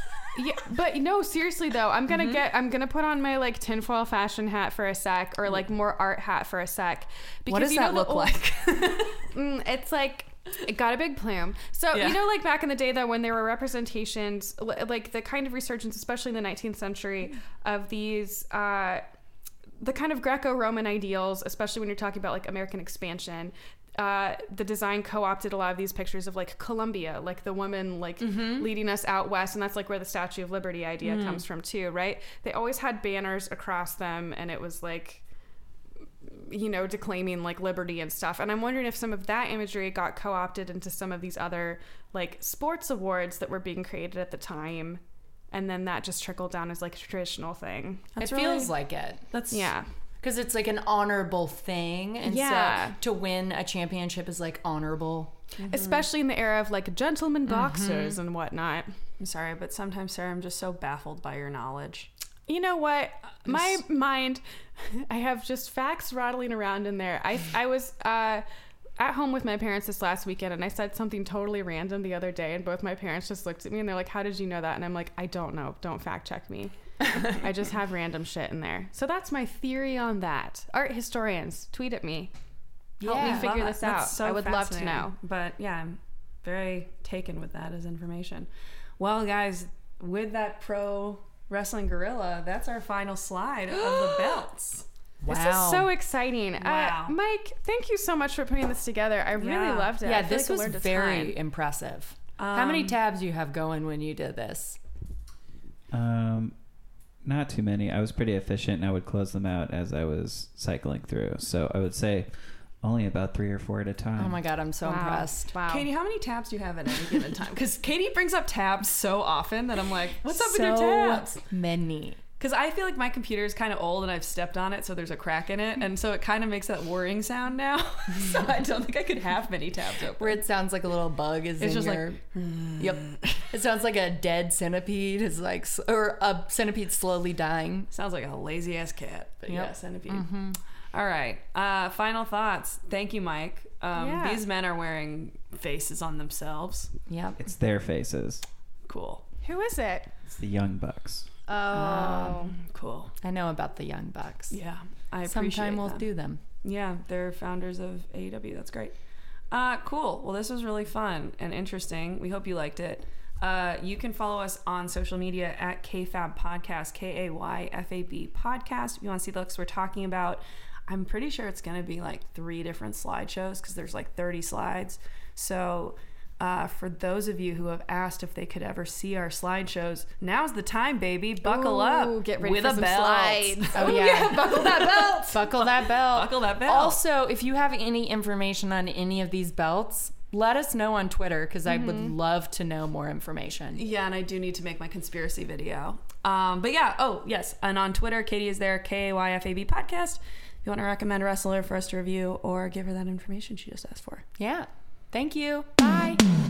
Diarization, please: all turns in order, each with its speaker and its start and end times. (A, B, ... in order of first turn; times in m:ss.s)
0:00.3-0:08.4 A
0:07.5-0:09.2 B
0:09.2-0:19.0 A
0:11.9-0:12.2 B
0:19.8-0:35.2 A
0:28.2-0:28.7 C
0:31.0-0:31.4 B
0:36.2-0:48.1 A
0:48.2-0:48.7 B
0:48.2-0:49.3 C
0:49.3-0:49.7 B
0:49.5-0:49.9 A
0:50.2-0:55.4 C
0:52.2-0:53.0 A
0:55.6-0:56.0 B
0:55.6-0:58.9 A
0:57.5-0:58.2 C
0:59.2-1:02.1 B
1:02.5-1:08.4 A
1:09.0-1:22.3 A
1:23.0-1:25.1 A
1:23.0-1:28.5 B
1:23.0-1:23.5 C
1:29.0-1:34.9 B
1:35.2-1:35.9 C
1:35.3-1:41.3 A
1:36.6-1:37.1 B
1:39.4-1:40.0 B
1:40.0-1:44.8 C
1:42.4-1:43.0 B
1:45.9-1:46.5 D
1:47.2-1:52.3 D
1:52.8-1:54.4 D
1:54.2-1:55.5 C
1:54.8-1:55.9 A
1:55.6-2:01.4 B
2:00.3-2:02.2 C
2:02.4-2:10.4 B
2:10.2-2:12.2 C
2:11.6-2:13.4 B
2:12.8-2:17.9 C
2:17.9-2:20.3 B
2:19.5-2:20.6 C
2:20.9-2:26.9 B
2:23.9-2:24.4 A
2:27.1-2:27.4 C
2:27.4-2:28.4 D
2:28.9-2:29.2 B
2:29.4-2:30.1 A
2:30.3-2:31.3 D
2:31.5-2:32.6 A
2:31.7-2:32.5 C
2:32.5-2:33.1 B
2:33.2-2:34.6 C
2:34.5-2:36.0 B
2:35.2-2:36.4 C
2:36.6-2:39.0 B
2:39.5-3:07.0 B
3:01.4-3:04.0 A
3:03.7-3:13.8 C
3:11.6-3:12.1 A
3:13.7-3:24.2 B
3:24.4-3:26.1 C
3:25.8-3:26.2 A